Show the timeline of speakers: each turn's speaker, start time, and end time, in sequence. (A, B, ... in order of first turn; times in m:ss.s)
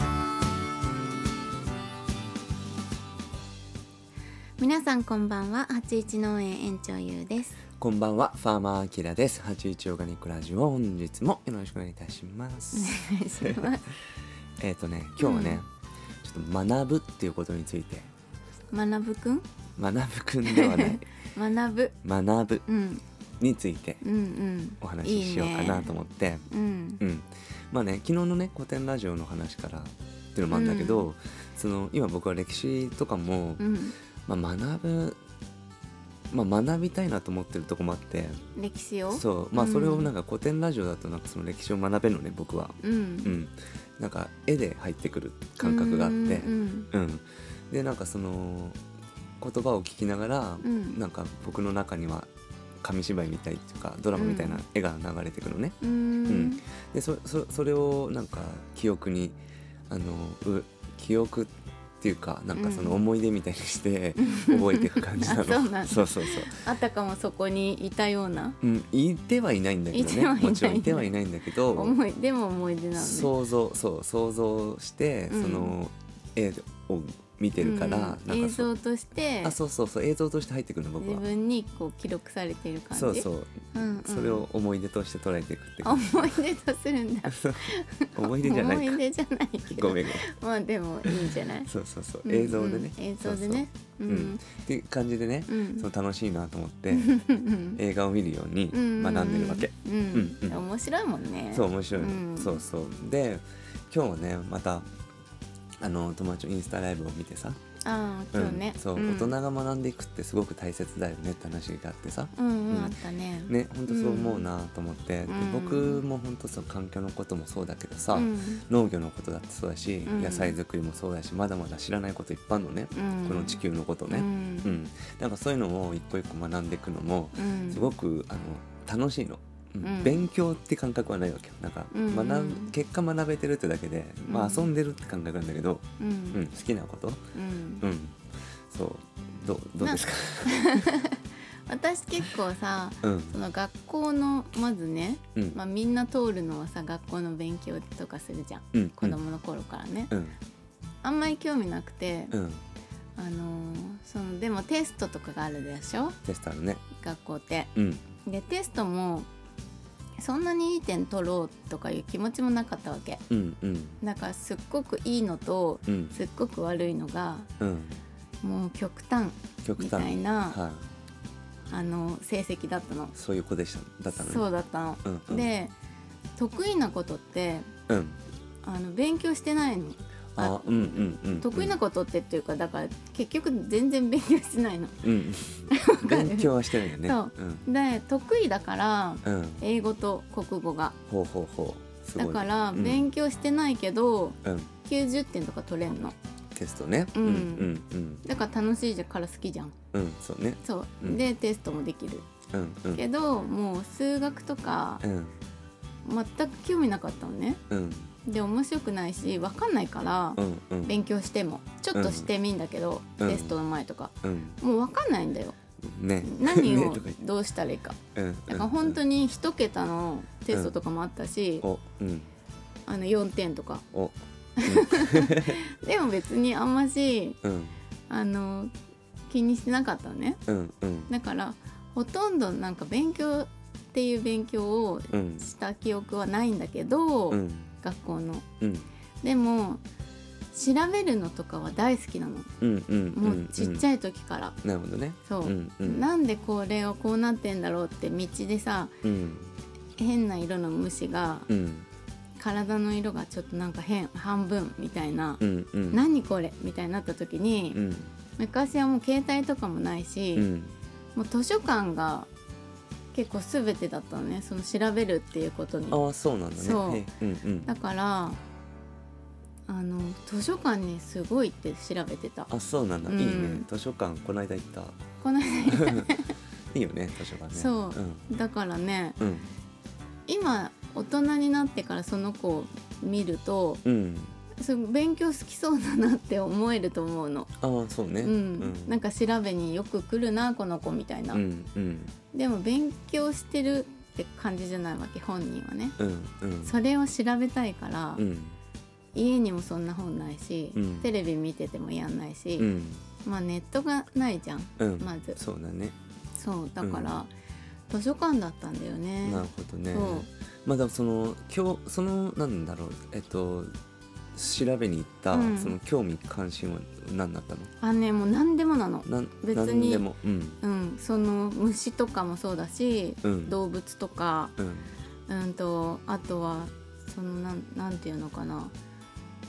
0:04.6-0:07.6 A
0:07.8-0:13.7 B
0:12.7-0:13.9 A
0:14.6-0:15.7 B
0:15.2-0:15.6 A
0:16.2-0:18.1 B
0:18.7-0:19.4 A
0:19.8-0:21.0 B
0:20.4-0:21.9 A
0:22.0-0:22.6 B
0:22.6-0:23.0 A
0:23.4-0:24.0 B
0:24.0-0:25.9 A
0:24.8-0:26.5 B
0:26.5-0:27.0 A
0:27.0-0:33.6 B
0:30.5-0:31.1 A
0:33.6-0:33.9 A
0:34.2-0:35.2 B
0:36.3-0:38.4 B
0:38.6-0:40.1 A
0:39.1-0:48.8 B
0:42.8-0:43.3 A
0:45.6-0:46.9 A
0:49.4-0:52.3 B
0:50.6-0:51.0 A
0:52.8-0:55.8 B
0:54.1-0:54.6 A
0:55.8-0:56.6 A
0:56.3-0:59.4 B
0:59.9-1:06.6 B
1:02.5-1:03.0 A
1:04.2-1:08.6 A
1:08.6-1:12.0 B
1:09.9-1:11.1 A
1:11.7-1:13.3 A
1:12.9-1:18.7 B
1:15.3-1:15.7 A
1:17.6-1:19.6 A
1:19.4-1:21.2 B
1:21.0-1:24.5 A
1:22.9-1:26.4 B
1:25.8-1:31.7 A
1:27.3-1:29.0 B
1:29.7-1:30.2 B
1:31.0-1:37.1 B
1:32.2-1:34.4 A
1:35.5-1:35.9 A
1:36.9-1:37.8 A
1:37.7-1:40.6 B
1:38.7-1:42.6 A
1:41.5-1:44.8 B
1:45.8-1:47.6 B
1:47.8-1:49.3 A
1:48.3-1:52.9 B
1:52.3-1:54.5 A
1:53.5-2:17.2 B
1:55.3-1:56.0 A
1:58.1-1:58.6 A
2:00.0-2:00.6 A
2:02.9-2:03.6 A
2:04.1-2:04.8 A
2:07.3-2:07.9 A
2:09.8-2:10.3 A
2:11.9-2:12.7 A
2:14.3-2:14.7 A
2:16.0-2:16.4 A
2:17.3-2:17.8 A
2:17.8-2:20.8 B
2:19.8-2:30.1 A
2:23.0-2:23.4 B
2:28.7-2:29.2 B
2:30.1-2:30.4 B
2:31.0-2:32.3 A
2:32.3-2:32.6 B
2:33.2-2:36.2 A
2:36.2-2:36.8 B
2:36.9-2:37.7 A
2:37.7-2:38.0 B
2:38.2-2:39.3 A
2:40.2-2:43.2 A
2:43.3-2:44.0 B
2:44.0-2:47.5 A
2:45.9-2:46.2 B
2:47.6-2:48.0 B
2:48.4-2:50.6 A
2:49.6-2:50.8 B
2:51.7-2:53.1 A
2:53.1-2:54.5 B
2:54.1-2:55.7 A
2:55.0-2:55.5 B
2:56.4-2:57.7 A
2:57.9-2:58.2 B
2:58.6-3:05.0 A
3:00.4-3:01.8 B
3:05.0-3:07.6 B
3:05.7-3:11.0 A
3:09.2-3:09.6 B
3:11.1-3:13.1 B
3:12.2-3:16.2 A
3:14.4-3:14.7 B
3:16.5-3:18.2 B
3:17.1-3:19.8 A
3:19.9-3:21.2 B
3:20.6-3:22.2 A
3:22.5-3:23.0 B
3:22.9-3:25.0 A
3:25.0-3:25.4 B
3:26.0-3:27.6 A
3:27.7-3:28.1 B
3:28.2-3:35.6 A
3:30.4-3:30.9 B
3:31.9-3:32.3 B
3:33.2-3:33.6 B
3:34.2-3:34.6 B
3:35.8-3:37.2 B
3:36.2-3:41.6 A
3:38.1-3:39.0 B
3:41.6-3:42.3 B
3:42.9-3:43.8 A
3:43.9-3:45.6 B
3:44.6-3:47.4 A
3:47.4-3:47.8 B
3:48.1-3:48.7 A
3:49.3-3:50.4 A
3:50.5-3:51.1 B
3:51.1-3:58.4 A
3:55.1-3:55.5 B
3:57.3-3:57.7 B
3:58.6-3:58.9 B
3:59.2-3:59.8 A
4:00.5-4:02.5 A
4:02.6-4:03.8 B
4:03.1-4:04.6 A
4:04.6-4:06.1 B
4:05.2-4:09.0 A
4:09.0-4:09.5 B
4:10.0-4:11.5 A
4:11.5-4:11.9 B
4:12.4-4:17.8 A
4:15.4-4:16.0 B
4:17.7-4:18.1 B
4:18.4-4:20.5 A
4:20.3-4:20.7 B
4:21.1-4:22.3 A
4:23.1-4:26.0 A
4:25.9-4:27.7 B
4:26.5-4:27.1 A
4:27.6-4:28.4 A
4:29.7-4:32.5 A
4:32.5-4:35.0 B
4:33.0-4:33.6 A
4:35.2-4:36.3 A
4:35.7-4:36.1 B
4:36.7-4:38.3 B
4:37.5-4:39.2 A
4:39.2-4:39.5 B
4:40.3-4:43.8 A
4:43.8-4:44.4 B
4:44.5-4:47.5 A
4:47.6-4:49.0 B
4:48.2-4:51.4 A
4:51.3-4:52.1 B
4:52.3-4:56.0 A
4:56.0-4:56.8 B
4:56.6-4:58.2 A
4:58.2-4:58.6 B
4:59.1-5:02.7 A
5:00.7-5:01.1 B
5:02.6-5:03.0 B
5:03.2-5:05.4 A
5:04.8-5:06.0 B
5:06.3-5:07.3 A
5:06.8-5:07.2 B
5:07.9-5:10.3 A
5:09.2-5:13.7 B
5:14.3-5:17.7 B
5:15.3-5:15.7 A
5:17.8-5:20.0 A
5:19.0-5:20.6 B
5:20.6-5:24.5 A
5:23.2-5:23.5 B
5:24.6-5:24.9 B
5:25.3-5:28.7 A